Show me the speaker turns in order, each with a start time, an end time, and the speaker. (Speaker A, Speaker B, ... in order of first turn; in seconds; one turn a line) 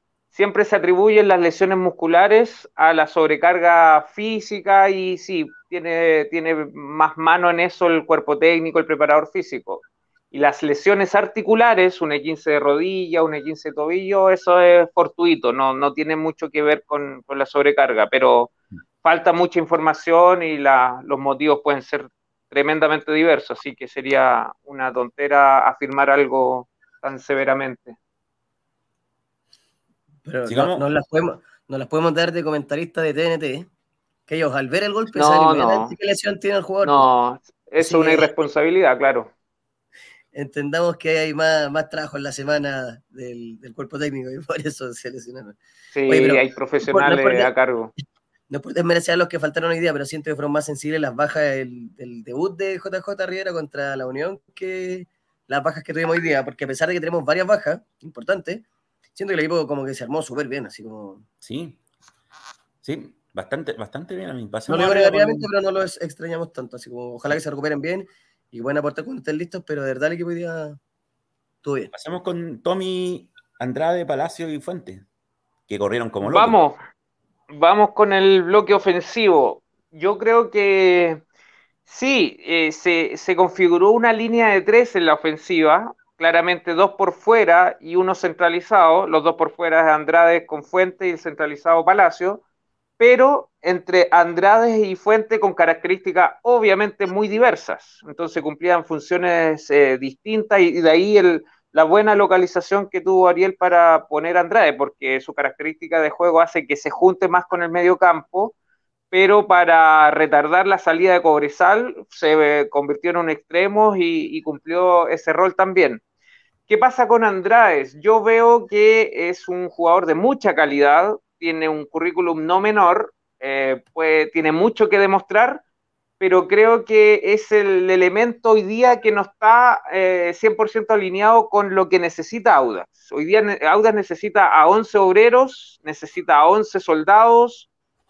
Speaker A: 0.3-28.0
Speaker B: 30.2-33.7
Speaker C: 30.5-30.8
Speaker B: 34.3-37.1
Speaker A: 35.1-36.0
Speaker A: 36.8-39.3
Speaker B: 37.8-38.3
Speaker B: 40.3-47.5
Speaker A: 45.9-47.9
Speaker B: 48.5-58.6
Speaker B: 59.2-61.2
Speaker C: 61.4-61.8
Speaker C: 62.8-65.5
Speaker B: 64.7-70.8
Speaker B: 71.6-71.9
Speaker C: 71.9-75.0
Speaker C: 75.7-76.6
Speaker A: 76.2-76.8
Speaker A: 77.5-81.2
Speaker A: 81.9-92.4
Speaker A: 93.0-108.5
Speaker A: 109.1-116.0
Speaker A: 116.7-125.6
Speaker A: 126.2-137.7